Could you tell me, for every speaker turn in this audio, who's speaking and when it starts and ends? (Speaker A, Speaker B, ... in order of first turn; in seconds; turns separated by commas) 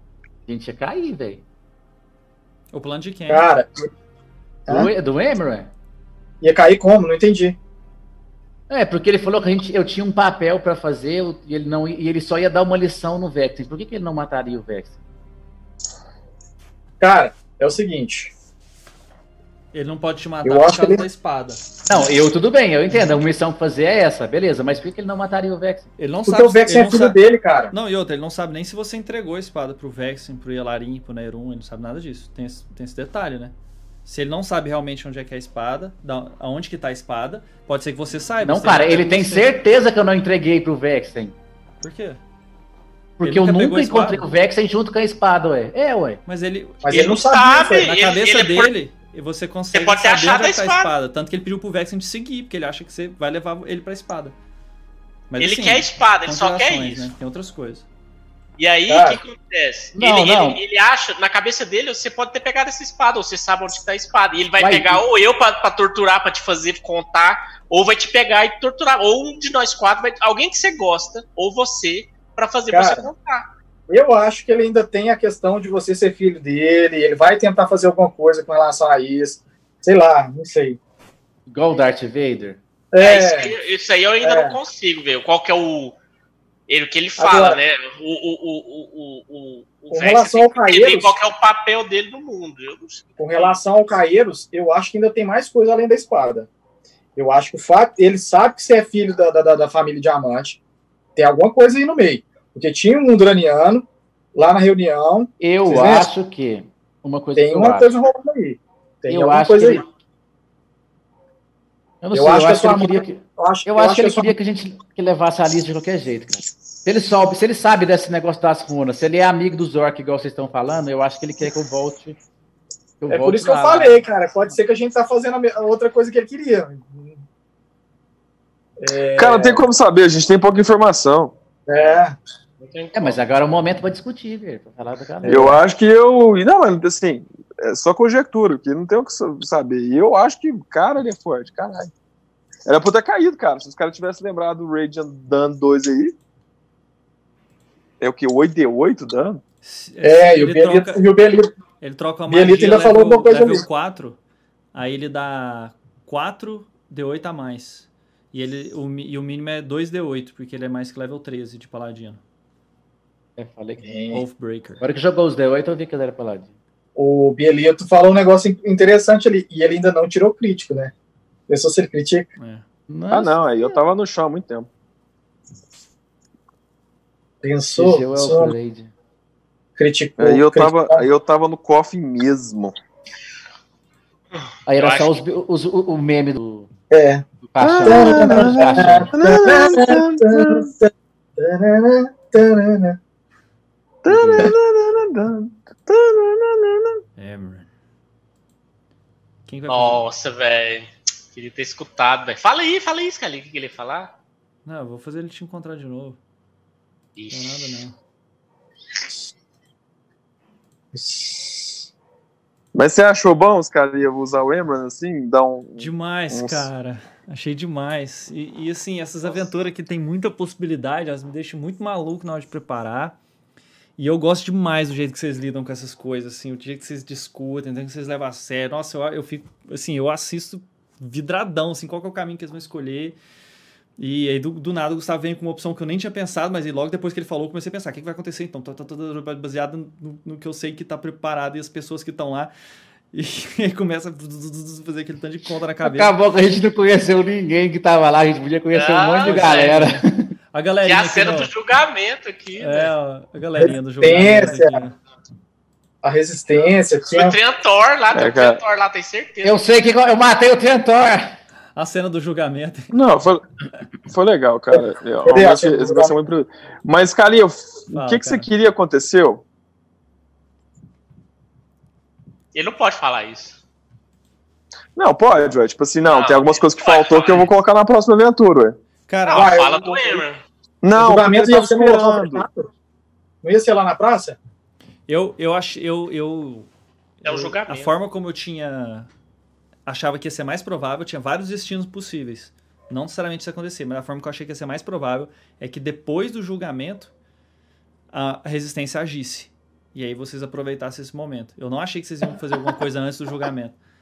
Speaker A: 0.5-1.4, Speaker B: 2.7-3.5, Speaker C: 3.3-3.9, Speaker A: 4.7-5.7, Speaker C: 6.4-7.6, Speaker A: 8.7-14.9, Speaker C: 17.0-18.3, Speaker B: 19.7-21.6, Speaker C: 20.4-21.0, Speaker A: 21.9-25.9, Speaker B: 26.0-27.2, Speaker C: 26.2-27.7, Speaker B: 27.7-33.5, Speaker B: 34.0-39.5, Speaker A: 38.4-41.3, Speaker B: 41.8-42.2, Speaker A: 43.2-46.2, Speaker B: 43.2-44.3, Speaker B: 46.2-54.3, Speaker C: 46.8-47.9, Speaker D: 46.9-48.7, Speaker D: 49.7-50.9, Speaker B: 55.3-57.9, Speaker D: 55.4-57.1, Speaker D: 58.6-73.5, Speaker C: 58.9-59.2, Speaker A: 59.9-60.6, Speaker A: 64.6-65.0, Speaker C: 72.7-73.1, Speaker C: 73.9-80.8, Speaker A: 81.5-82.6, Speaker C: 82.9-83.5, Speaker D: 83.0-86.0, Speaker C: 84.2-84.6, Speaker D: 86.7-93.6, Speaker C: 87.2-87.6, Speaker C: 89.9-91.1, Speaker C: 93.2-96.5, Speaker C: 97.2-100.6, Speaker C: 101.2-106.1, Speaker A: 105.4-107.9, Speaker C: 107.3-109.8, Speaker A: 109.1-109.8, Speaker A: 112.0-122.2, Speaker C: 112.1-114.3, Speaker A: 123.0-124.0, Speaker C: 123.1-127.1, Speaker C: 128.8-129.6, Speaker E: 129.2-131.3, Speaker C: 131.7-132.1, Speaker D: 131.7-132.0, Speaker D: 132.6-133.2, Speaker A: 132.9-135.6, Speaker E: 135.2-141.9, Speaker C: 135.3-135.5, Speaker E: 142.7-146.1, Speaker E: 148.0-149.4, Speaker B: 149.6-151.0, Speaker C: 150.0-151.5, Speaker B: 151.8-154.2, Speaker C: 152.3-153.6, Speaker B: 154.7-162.2, Speaker A: 163.4-163.9, Speaker C: 163.8-164.2, Speaker B: 164.1-164.8, Speaker A: 164.8-166.5, Speaker C: 166.9-170.9, Speaker C: 171.5-172.3, Speaker B: 172.4-172.6, Speaker A: 172.9-173.4, Speaker E: 173.1-174.7, Speaker C: 177.4-178.5, Speaker A: 177.8-178.9, Speaker C: 179.8-181.1, Speaker E: 180.2-182.7, Speaker D: 184.3-185.2, Speaker A: 184.7-186.7, Speaker C: 186.9-187.2, Speaker A: 187.5-189.1, Speaker E: 187.6-190.7, Speaker C: 187.8-193.0, Speaker E: 194.0-197.0, Speaker A: 194.1-194.5, Speaker B: 197.2-197.7, Speaker B: 199.4-200.0, Speaker D: 199.7-204.1, Speaker B: 204.6-206.2, Speaker D: 207.2-207.8, Speaker B: 207.3-207.9, Speaker C: 210.9-211.8, Speaker E: 212.7-216.7, Speaker B: 215.8-223.2, Speaker B: 224.0-233.2, Speaker B: 234.0-242.5, Speaker B: 243.1-246.1, Speaker A: 245.8-250.3, Speaker D: 248.7-249.8, Speaker B: 249.2-251.5, Speaker D: 250.8-252.9, Speaker B: 252.6-254.9, Speaker C: 253.6-254.8, Speaker C: 256.0-257.4, Speaker D: 257.1-259.6, Speaker E: 258.1-258.6, Speaker A: 259.4-261.3, Speaker B: 261.8-262.9, Speaker E: 262.9-263.4, Speaker E: 264.1-269.4, Speaker C: 265.2-266.1, Speaker B: 267.9-268.5, Speaker D: 272.5-273.6, Speaker E: 274.9-278.8, Speaker D: 276.0-277.5, Speaker B: 279.1-279.6, Speaker D: 279.2-280.4, Speaker C: 279.3-280.2, Speaker E: 280.8-282.4, Speaker C: 280.9-282.7, Speaker C: 283.4-284.4, Speaker B: 285.1-286.7, Speaker B: 287.2-289.1, Speaker D: 287.2-287.9, Speaker B: 289.9-297.1, Speaker B: 298.1-303.8